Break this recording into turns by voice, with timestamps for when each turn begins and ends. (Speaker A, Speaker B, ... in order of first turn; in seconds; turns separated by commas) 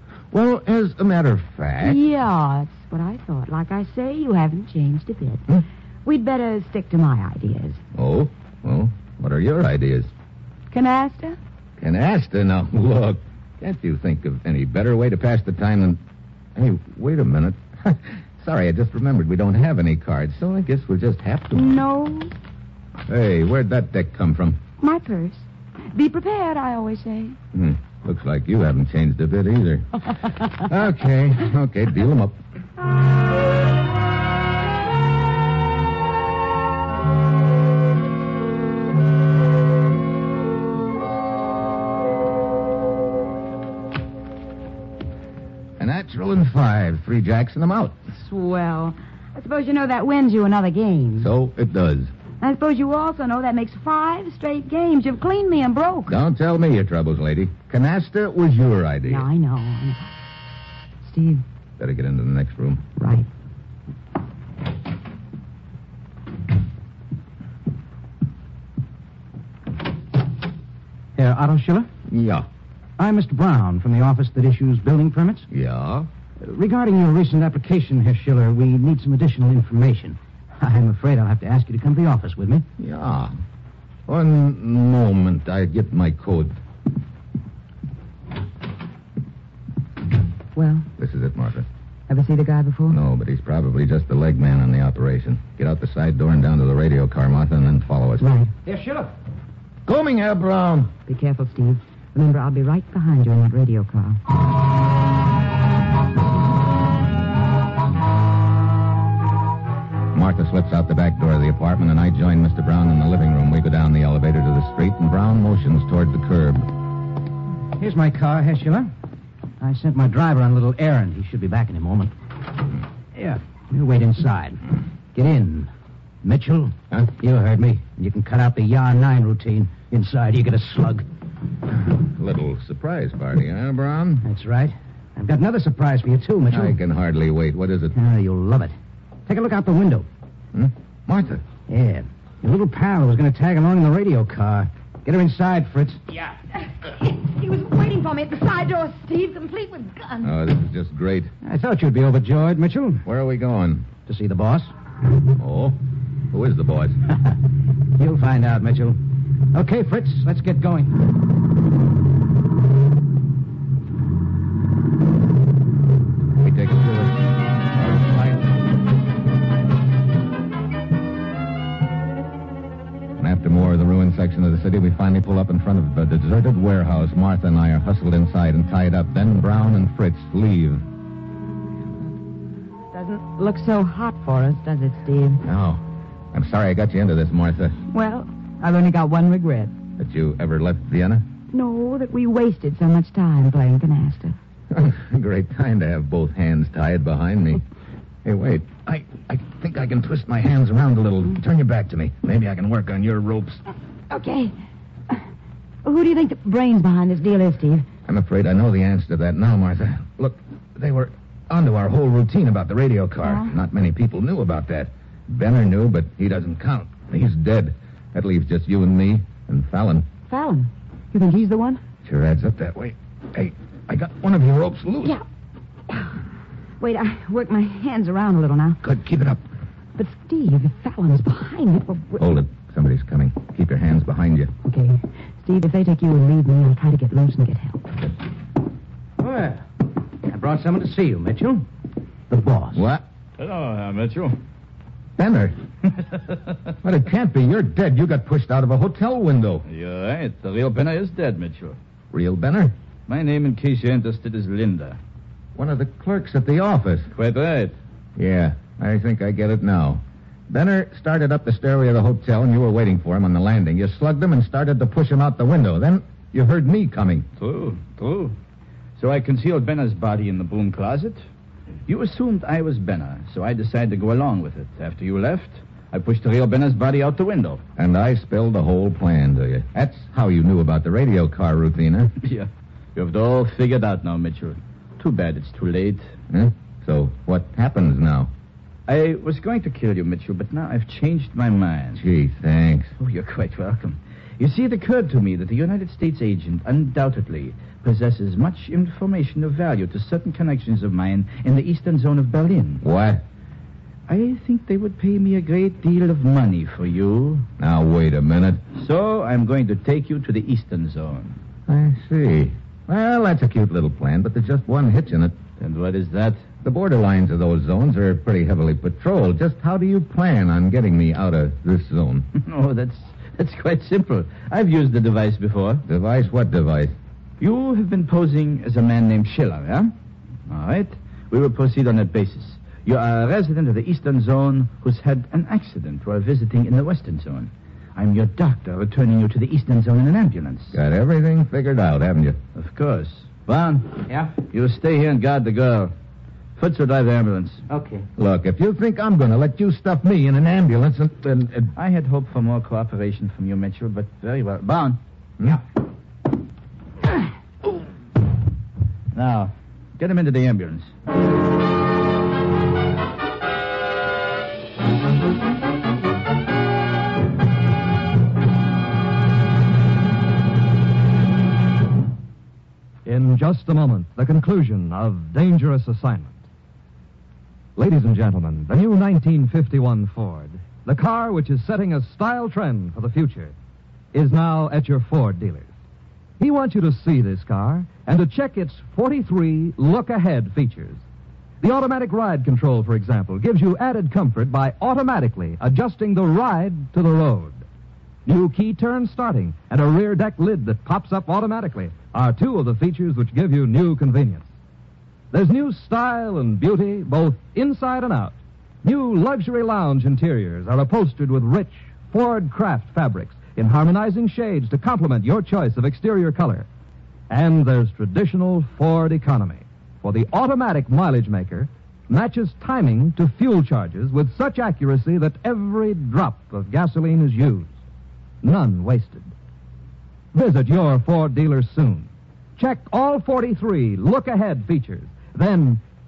Speaker A: 0.3-2.0, Speaker B: 1.8-5.5, Speaker B: 6.0-7.8, Speaker A: 8.0-10.1, Speaker B: 10.7-11.4, Speaker A: 11.8-16.0, Speaker A: 16.6-21.8, Speaker B: 21.5-22.3, Speaker A: 23.1-24.6, Speaker B: 24.8-27.4, Speaker A: 27.5-30.0, Speaker A: 30.5-32.4, Speaker A: 45.8-48.0, Speaker B: 48.1-51.3, Speaker A: 51.2-52.1, Speaker B: 52.4-56.1, Speaker A: 56.1-59.3, Speaker B: 59.1-60.1, Speaker B: 61.0-61.4, Speaker A: 61.8-62.8, Speaker B: 63.0-63.3, Speaker C: 71.2-71.9, Speaker A: 72.1-72.5, Speaker C: 73.0-75.5, Speaker A: 75.5-76.1, Speaker C: 76.4-82.7, Speaker A: 82.8-83.4, Speaker A: 84.1-86.6, Speaker B: 90.6-90.9, Speaker A: 91.0-91.7, Speaker B: 92.1-93.0, Speaker A: 92.9-98.3, Speaker B: 98.2-98.5, Speaker C: 98.7-99.1, Speaker A: 99.9-100.9, Speaker B: 101.1-104.2, Speaker A: 110.1-116.7, Speaker C: 117.8-118.9, Speaker C: 119.6-122.1, Speaker C: 123.1-124.6, Speaker C: 125.1-125.7, Speaker C: 126.2-131.1, Speaker A: 132.0-134.2, Speaker C: 134.2-136.8, Speaker A: 136.5-137.9, Speaker C: 137.9-138.8, Speaker C: 139.3-140.1, Speaker A: 140.5-141.4, Speaker C: 141.7-146.0, Speaker B: 146.8-150.3, Speaker A: 150.2-151.3, Speaker C: 151.4-153.1, Speaker A: 153.1-153.9, Speaker C: 154.1-154.7, Speaker A: 155.4-155.8, Speaker A: 156.3-157.0, Speaker C: 158.0-159.0, Speaker C: 159.5-161.1, Speaker A: 166.4-167.2, Speaker A: 167.8-168.4, Speaker A: 173.2-180.8, Speaker B: 182.9-185.4, Speaker A: 185.4-187.8, Speaker B: 187.9-189.7, Speaker A: 190.0-191.2, Speaker B: 191.5-194.4, Speaker A: 194.7-197.6, Speaker A: 198.2-203.6, Speaker B: 204.1-204.5, Speaker B: 205.8-207.9, Speaker A: 208.1-220.1, Speaker B: 213.2-213.5, Speaker B: 220.3-221.8, Speaker A: 222.1-225.2, Speaker B: 226.8-228.8, Speaker A: 228.8-229.4, Speaker B: 230.0-232.2, Speaker A: 232.2-234.5, Speaker B: 234.7-238.0, Speaker C: 239.2-239.6, Speaker C: 240.2-241.7, Speaker C: 242.3-242.8, Speaker A: 242.7-243.1, Speaker D: 243.4-244.4, Speaker A: 245.2-245.6, Speaker A: 246.8-249.7, Speaker D: 249.7-251.8, Speaker A: 252.1-252.7, Speaker D: 253.1-255.0, Speaker A: 255.6-257.1, Speaker D: 257.1-257.8, Speaker A: 258.2-267.3, Speaker D: 267.4-268.4, Speaker D: 269.0-271.2, Speaker D: 271.9-277.6, Speaker A: 277.8-282.1, Speaker D: 282.2-286.1, Speaker A: 286.3-288.3, Speaker D: 288.9-292.0, Speaker A: 292.0-292.9, Speaker D: 293.0-302.8, Speaker A: 302.8-303.2, Speaker D: 304.1-307.5, Speaker A: 307.6-308.6, Speaker D: 308.8-311.4, Speaker A: 311.7-315.4, Speaker D: 315.6-316.4, Speaker A: 316.6-322.3, Speaker D: 322.4-325.8, Speaker A: 325.9-327.0, Speaker D: 327.4-329.9, Speaker D: 330.5-340.8, Speaker A: 340.7-342.4, Speaker D: 342.6-345.9, Speaker D: 346.6-347.7, Speaker C: 347.8-348.0, Speaker A: 348.2-351.7, Speaker D: 351.8-355.0, Speaker D: 359.1-360.9, Speaker E: 373.1-376.4, Speaker E: 377.8-383.5, Speaker E: 384.1-385.7, Speaker E: 386.4-391.0, Speaker E: 391.6-397.6, Speaker E: 398.3-404.5, Speaker E: 405.3-416.7, Speaker E: 417.3-427.7, Speaker E: 428.4-429.3, Speaker E: 430.3-435.8